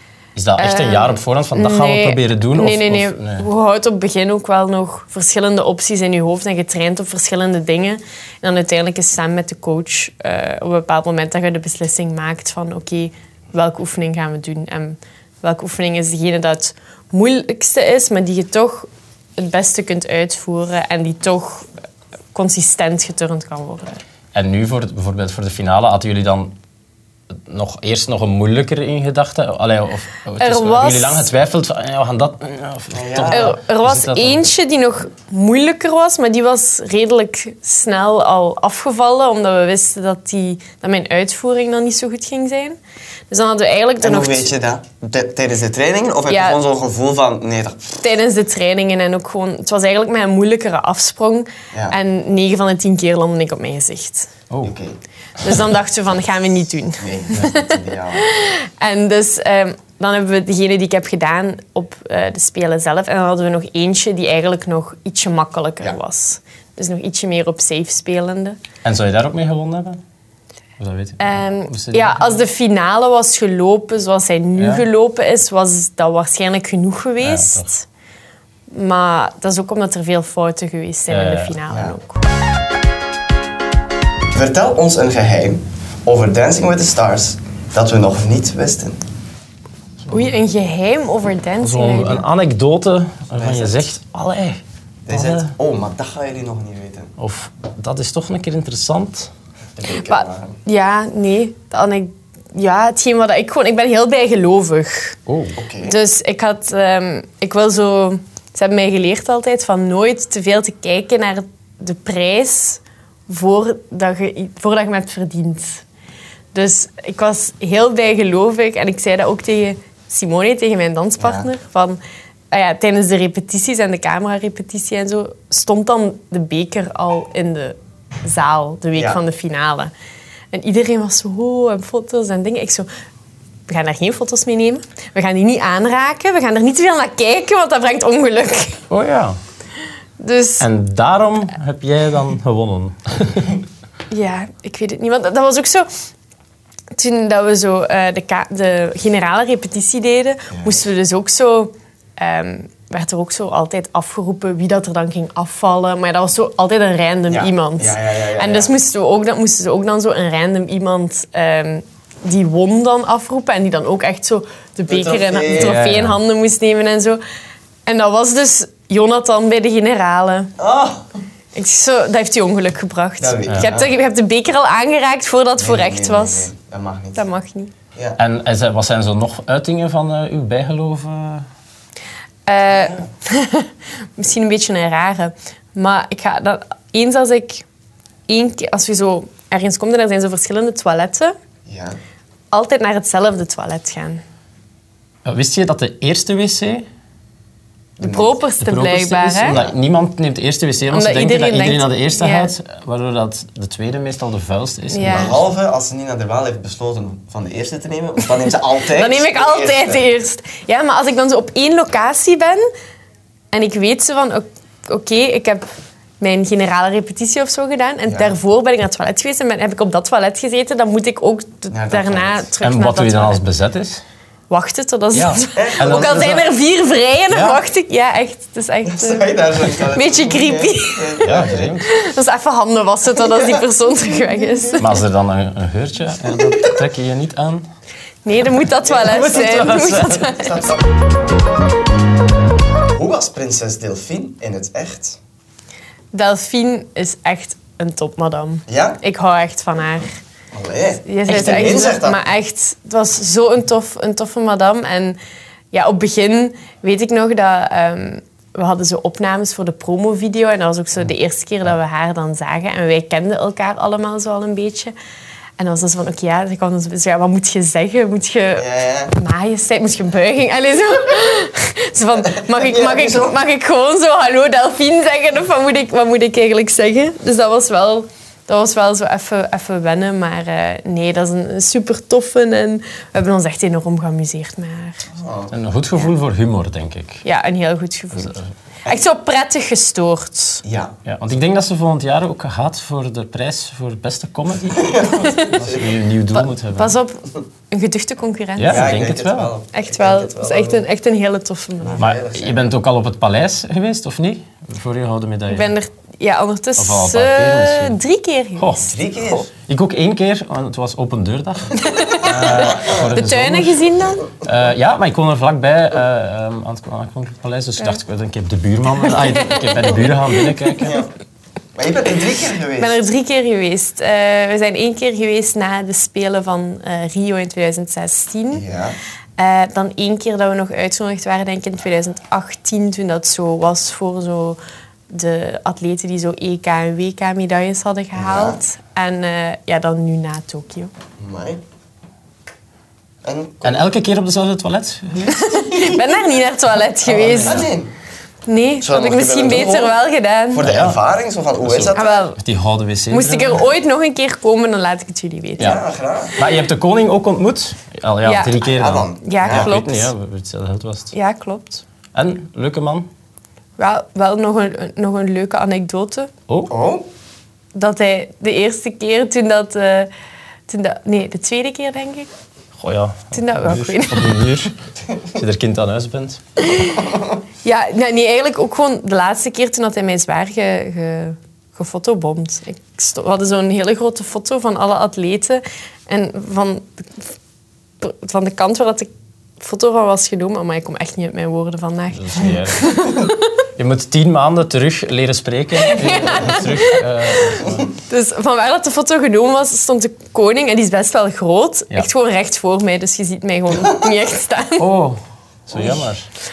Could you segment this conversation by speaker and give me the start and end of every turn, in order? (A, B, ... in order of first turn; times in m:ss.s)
0:00.4-0:03.5 A
0:00.6-0:21.7 B
0:22.3-0:24.0 B
0:24.3-0:26.6 A
0:27.5-0:34.4 A
0:30.4-0:31.3 B
0:32.9-0:33.6 C
0:33.3-0:42.8 B
0:43.3-0:44.5 B
0:44.0-0:48.0 C
0:46.3-0:46.6 B
0:48.0-0:54.3 B
0:54.5-0:54.8 A
0:54.6-0:55.0 C
0:55.4-1:08.6 B
0:57.0-0:58.3 C
1:08.8-1:10.0 A
1:10.8-1:12.4 A
1:11.2-1:17.8 B
1:14.6-1:14.9 A
1:17.2-1:17.7 A
1:18.7-1:22.2 B
1:21.1-1:21.6 A
1:21.7-1:22.0 C
1:24.3-1:29.0 C
1:30.1-1:32.3 B
1:31.6-1:35.5 A
1:33.3-1:33.9 C
1:35.1-1:37.1 C
1:37.2-1:39.3 A
1:39.8-1:40.6 C
1:40.0-1:45.2 B
1:45.3-1:45.6 A
1:45.6-1:46.0 C
1:45.8-1:55.8 B
1:56.5-2:02.0 B
2:01.2-2:01.5 C
2:02.5-2:09.9 B
2:09.0-2:09.2 C
2:10.5-2:12.9 B
2:13.7-2:18.8 B
2:18.9-2:19.4 A
2:20.2-2:20.7 B
2:20.6-2:23.6 A
2:24.1-2:25.9 B
2:27.0-2:47.2 B
2:30.5-2:30.8 C
2:37.3-2:38.7 C
2:44.9-2:45.8 C
2:45.6-2:46.2 A
2:47.9-2:50.5 B
2:50.6-2:51.1 C
2:51.6-2:56.5 B
2:53.2-2:53.9 C
2:55.6-2:57.3 C
2:57.2-2:57.7 B
2:58.2-3:01.5 A
3:02.5-3:07.6 B
3:02.7-3:03.1 C
3:08.3-3:11.4 B
3:11.7-3:12.0 C
3:12.5-3:14.2 B
3:15.2-3:16.9 A
3:18.0-3:18.4 C
3:18.0-3:19.6 B
3:18.6-3:25.4 A
3:19.5-3:19.7 C
3:20.9-3:22.5 B
3:24.9-3:25.4 B
3:25.0-3:30.1 C
3:28.9-3:32.6 B
3:33.5-3:35.7 B
3:36.2-3:43.4 B
3:38.1-3:38.4 C
3:41.7-3:42.5 C
3:42.6-3:44.0 A
3:44.5-3:55.0 B
3:45.1-3:46.3 A
3:45.6-3:46.5 C
3:47.3-3:47.6 A
3:48.9-3:51.7 C
3:51.2-3:51.9 A
3:53.3-3:53.6 C
3:54.4-3:54.8 C
3:54.8-3:57.7 A
3:58.2-4:00.6 B
3:58.8-4:00.9 C
3:59.0-4:00.3 A
4:02.9-4:05.2 C
4:06.1-4:10.1 B
4:08.7-4:09.0 C
4:10.5-4:12.2 C
4:11.1-4:15.2 B
4:15.7-4:24.9 B
4:25.6-4:45.1 B
4:28.6-4:29.1 C
4:32.4-4:33.3 C
4:45.1-4:45.5 C
4:45.5-4:47.2 A
4:47.2-4:50.6 B
4:48.2-4:48.5 A
4:50.6-4:51.0 C
4:51.0-4:56.9 A
4:54.8-4:55.8 C
4:55.2-4:55.6 B
4:56.3-4:58.9 B
4:58.6-4:59.5 A
4:58.7-5:00.9 C
4:59.7-5:02.1 B
5:01.8-5:02.6 C
5:02.0-5:05.7 A
5:05.5-5:08.9 B
5:06.8-5:08.0 A
5:08.6-5:08.9 A
5:08.8-5:09.5 C
5:09.6-5:13.8 A
5:11.9-5:14.3 B
5:12.2-5:13.0 C
5:14.4-5:21.0 A
5:19.0-5:20.6 B
5:21.8-5:23.0 C
5:22.8-5:28.6 B
5:28.5-5:29.0 C
5:29.4-5:34.6 B
5:35.1-5:40.9 B
5:38.2-5:38.6 C
5:41.2-5:41.6 C
5:43.2-5:43.8 C
5:43.6-5:45.7 A
5:45.3-5:47.7 B
5:47.0-5:47.9 C
5:48.5-5:50.7 B
5:48.8-5:50.0 C
5:50.5-5:52.1 C
5:50.6-5:51.0 A
5:51.6-5:53.6 A
5:52.0-5:52.4 B
5:53.1-5:55.8 B
5:55.6-5:56.4 C
5:56.4-6:01.1 A
5:58.2-5:58.6 B
5:58.6-5:59.7 C
5:59.2-6:00.1 B
6:01.1-6:01.8 B
6:02.1-6:03.1 A
6:03.8-6:06.3 B
6:06.7-6:07.1 C
6:07.8-6:10.1 B
6:10.7-6:12.3 B
6:12.8-6:14.7 A
6:13.3-6:14.3 B
6:15.3-6:16.4 A
6:17.6-6:27.2 B
6:28.0-6:29.1 B
6:29.6-6:33.4 B
6:32.1-6:33.1 A
6:33.8-6:37.9 A
6:35.8-6:44.9 B
6:43.7-6:44.1 C
6:44.8-6:46.3 A
6:45.7-6:46.0 C